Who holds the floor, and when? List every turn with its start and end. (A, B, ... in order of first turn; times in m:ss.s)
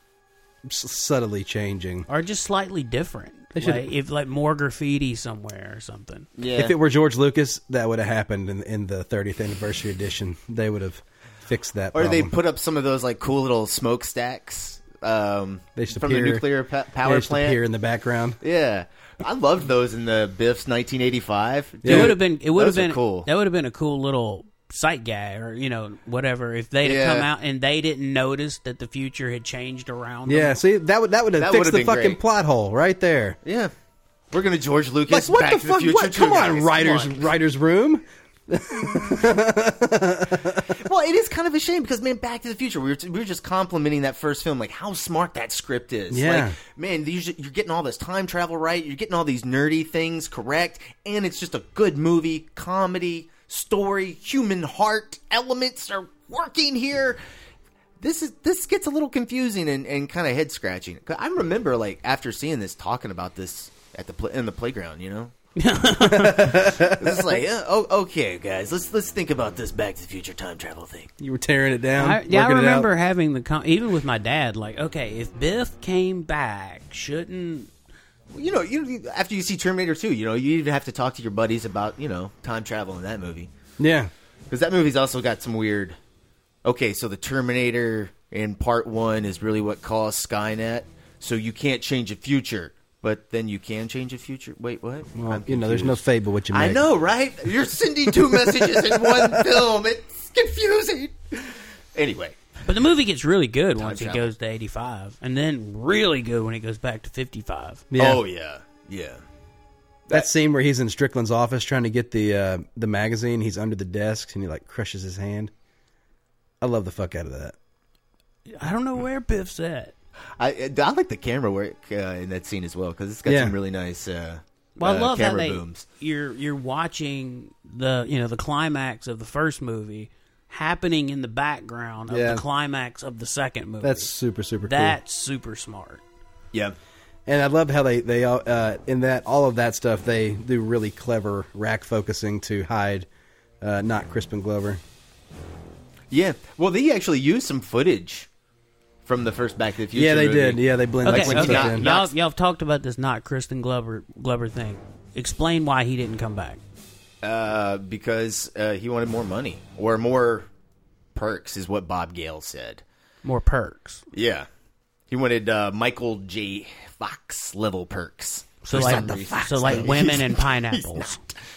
0:00.7-0:02.1 A
0:02.1-0:06.3 B
0:03.6-0:03.9 A
0:06.4-0:06.8 C
0:06.6-0:12.3 A
0:11.9-0:17.6 C
0:15.8-0:16.5 A
0:17.0-0:18.4 A
0:18.4-0:23.3 C
0:21.8-0:22.2 A
0:21.8-0:30.6 B
0:26.8-0:27.3 C
0:30.3-0:33.4 A
0:31.4-0:32.2 C
0:33.4-0:33.7 C
0:34.3-0:37.3 C
0:35.1-0:40.7 A
0:40.8-0:57.2 C
0:46.1-0:46.6 A
0:58.0-1:05.3 C
1:05.6-1:06.6 B
1:06.0-1:07.3 A
1:06.7-1:11.1 C
1:11.2-1:12.9 A
1:12.0-1:17.7 B
1:18.3-1:23.5 C
1:23.8-1:24.1 A
1:24.5-1:26.0 C
1:26.6-1:36.0 C
1:35.2-1:36.9 A
1:36.5-1:42.4 C
1:38.1-1:39.5 A
1:42.7-1:47.9 B
1:43.8-1:44.3 C
1:47.9-1:48.2 A
1:48.0-1:49.2 C
1:50.1-1:55.5 A
1:56.6-1:57.6 A
1:58.5-1:59.9 B
2:00.4-2:05.8 C
2:03.3-2:03.6 A
2:04.8-2:14.1 B
2:12.1-2:12.4 A
2:13.8-2:15.0 A
2:14.6-2:16.0 B
2:17.3-2:23.1 A
2:23.6-2:24.8 A
2:26.1-2:28.3 C
2:29.0-2:32.1 C
2:29.9-2:31.8 A
2:31.0-2:36.6 B
2:37.2-2:40.5 C
2:41.2-2:42.8 C
2:43.2-2:44.0 B
2:44.1-2:44.5 C
2:45.1-2:51.1 C
2:48.6-2:51.2 B
2:48.7-2:50.2 A